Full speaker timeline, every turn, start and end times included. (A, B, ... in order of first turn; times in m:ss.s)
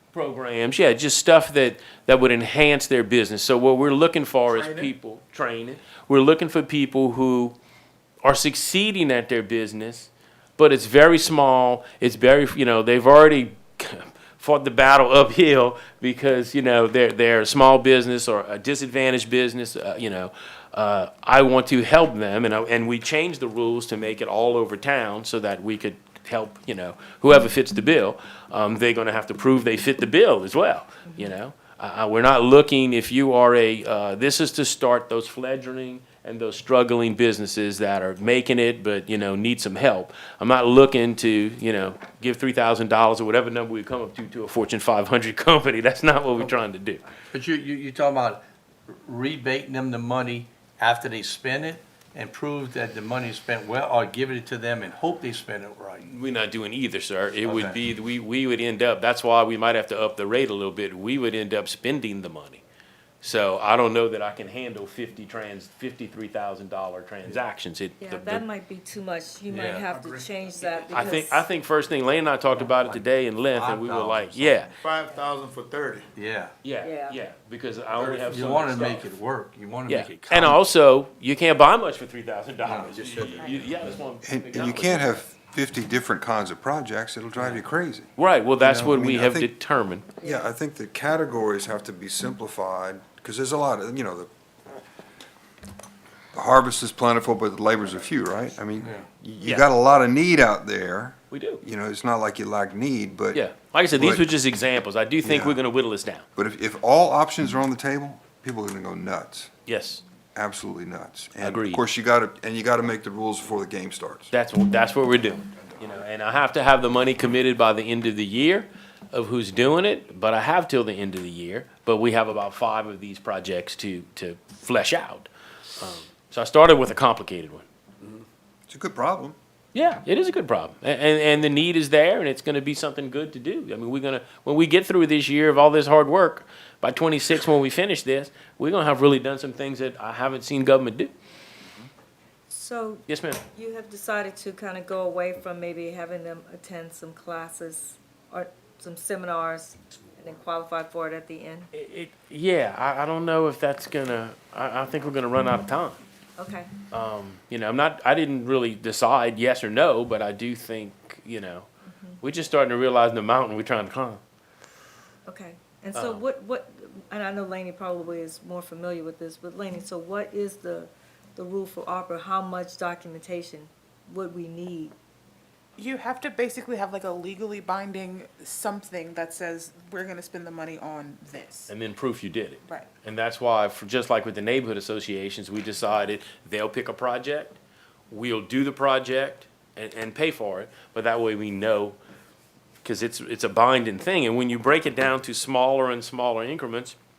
0:00.1-0:07.6 A
0:08.2-0:47.0 A
0:47.3-0:48.4 B
0:49.0-0:56.1 B
0:56.0-1:02.6 A
0:57.4-0:57.8 B
1:03.2-1:08.4 A
1:08.0-1:11.5 C
1:09.5-1:11.1 D
1:09.6-1:09.9 B
1:10.9-1:14.8 A
1:12.8-1:13.0 B
1:13.6-1:14.7 B
1:14.8-1:16.1 D
1:16.1-1:16.5 B
1:16.6-1:19.0 A
1:16.8-1:17.2 C
1:18.0-1:20.6 B
1:19.9-1:25.2 A
1:22.6-1:23.5 B
1:23.3-1:23.6 E
1:24.2-1:29.5 F
1:28.2-1:30.0 A
1:30.2-1:30.5 C
1:30.2-1:34.3 F
1:36.3-1:44.3 F
1:38.8-1:39.0 B
1:41.3-1:41.6 A
1:43.3-1:46.2 A
1:45.2-1:45.6 F
1:46.4-1:49.5 F
1:49.6-1:50.0 A
1:50.3-1:54.3 F
1:51.4-1:51.8 A
1:54.3-2:07.6 A
2:08.7-2:09.4 F
2:09.7-2:21.1 A
2:22.5-2:31.7 C
2:23.1-2:23.4 A
2:31.7-2:36.0 A
2:36.4-2:36.7 C
2:36.9-2:41.7 A
2:41.9-2:42.2 C
2:42.2-2:44.2 A
2:45.2-2:54.9 C
2:45.9-2:46.2 A
2:55.8-3:01.7 E
3:01.7-3:07.6 A
3:08.1-3:12.0 A
3:12.8-3:17.0 A